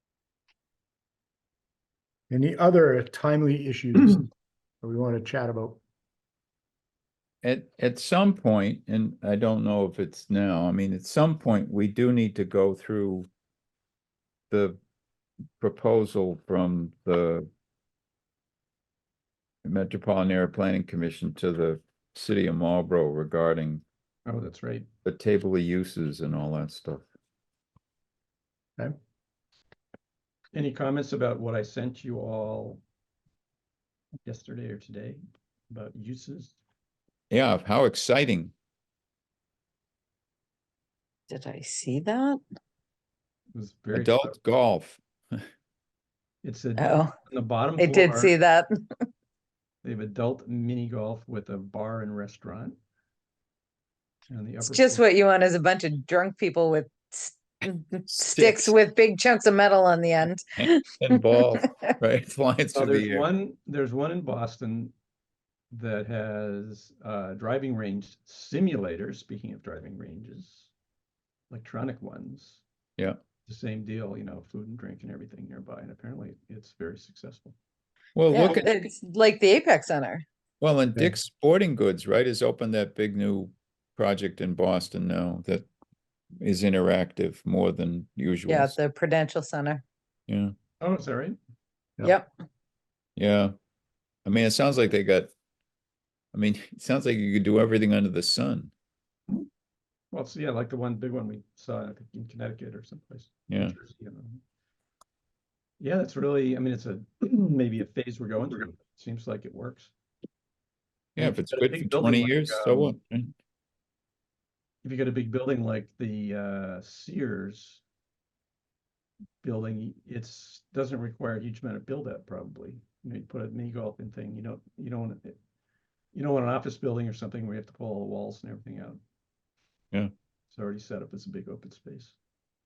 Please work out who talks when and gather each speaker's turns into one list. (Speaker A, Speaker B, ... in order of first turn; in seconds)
Speaker A: 2.3-4.2, 4.8-5.8
Speaker B: 7.4-13.3, 14.5-14.8, 15.6-17.5, 19.6-23.8, 25.0-27.0, 37.3-38.5, 43.9-45.4, 58.1-58.8, 60.6-63.3, 78.2-78.7, 80.6-85.7, 86.4-88.7, 90.3-90.5, 93.2-93.5, 94.2-95.3, 96.3-98.7, 103.5-103.8, 111.1-113.3
Speaker C: 24.3-24.9, 30.5-32.8, 34.2-35.2, 35.7-36.5, 43.5-44.4, 46.4-46.7, 47.4-48.0, 49.8-52.7, 54.3-54.7, 62.7-64.9, 65.7-70.7, 71.5-72.6, 73.5-77.5, 90.8-91.4, 100.1-104.3, 105.8-109.9, 111.2-112.9, 114.8-117.8, 119.4-125.4, 126.1-129.0, 130.5-132.1
Speaker D: 41.3-42.4, 46.8-47.2, 47.8-48.7, 54.6-60.8, 78.3-80.2, 88.5-89.8, 92.0-92.3